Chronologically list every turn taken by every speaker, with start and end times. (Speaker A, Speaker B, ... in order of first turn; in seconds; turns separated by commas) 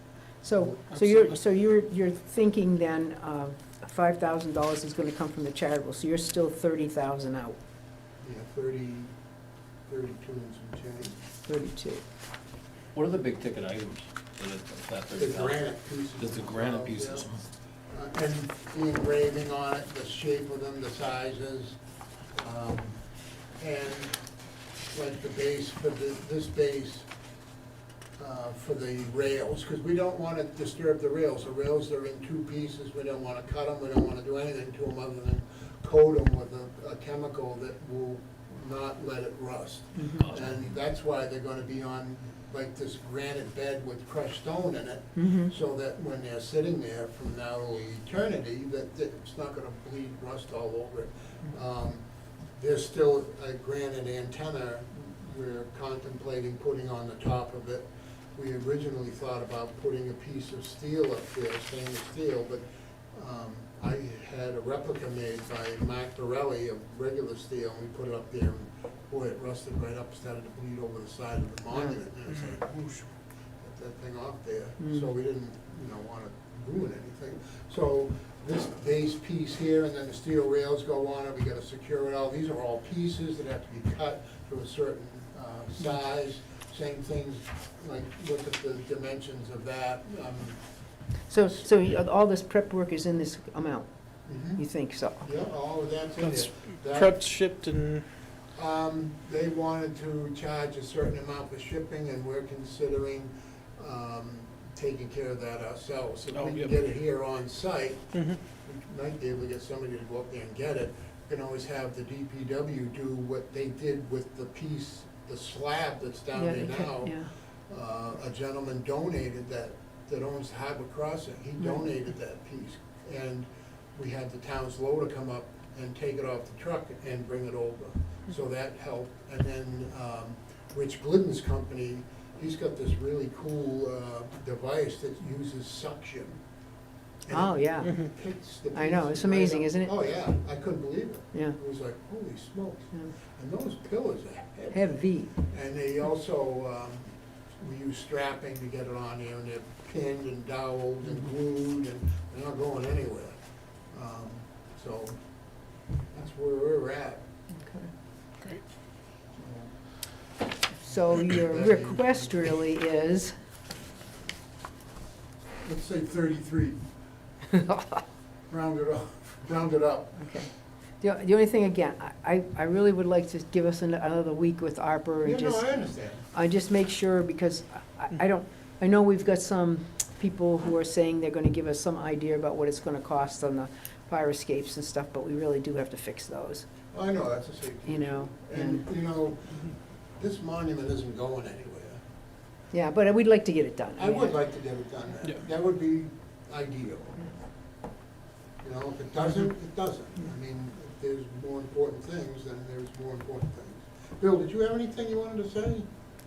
Speaker A: 0.4-7.6, Speaker B: 0.6-1.0, Speaker B: 8.2-9.1, Speaker B: 9.9-11.2, Speaker A: 11.4-12.0, Speaker C: 12.9-15.6, Speaker B: 15.2-17.3, Speaker C: 16.2-17.4, Speaker B: 17.9-21.8, Speaker B: 22.3-24.2, Speaker B: 24.9-27.1, Speaker B: 28.2-52.0, Speaker A: 39.9-40.2, Speaker C: 40.2-40.7, Speaker A: 45.1-45.5, Speaker B: 52.5-90.6, Speaker A: 74.8-75.1, Speaker A: 91.3-93.9, Speaker B: 94.2-97.1, Speaker A: 94.5-95.2, Speaker D: 96.2-98.0, Speaker B: 98.5-136.4, Speaker D: 106.3-106.7, Speaker A: 116.3-117.3, Speaker B: 137.2-153.4, Speaker A: 137.3-138.0, Speaker A: 138.7-139.9, Speaker A: 141.3-141.6, Speaker A: 144.7-145.3, Speaker B: 153.9-155.2, Speaker B: 156.1-157.2, Speaker A: 157.5-157.9, Speaker B: 159.3-159.8, Speaker A: 160.8-163.3, Speaker B: 160.8-162.6, Speaker B: 165.6-166.8, Speaker A: 167.5-167.9, Speaker B: 168.5-170.4, Speaker A: 170.2-170.5, Speaker A: 171.0-186.7, Speaker B: 175.2-176.3, Speaker B: 186.9-192.0, Speaker A: 187.8-188.8, Speaker A: 192.7-194.4, Speaker B: 194.0-197.2, Speaker B: 198.6-205.9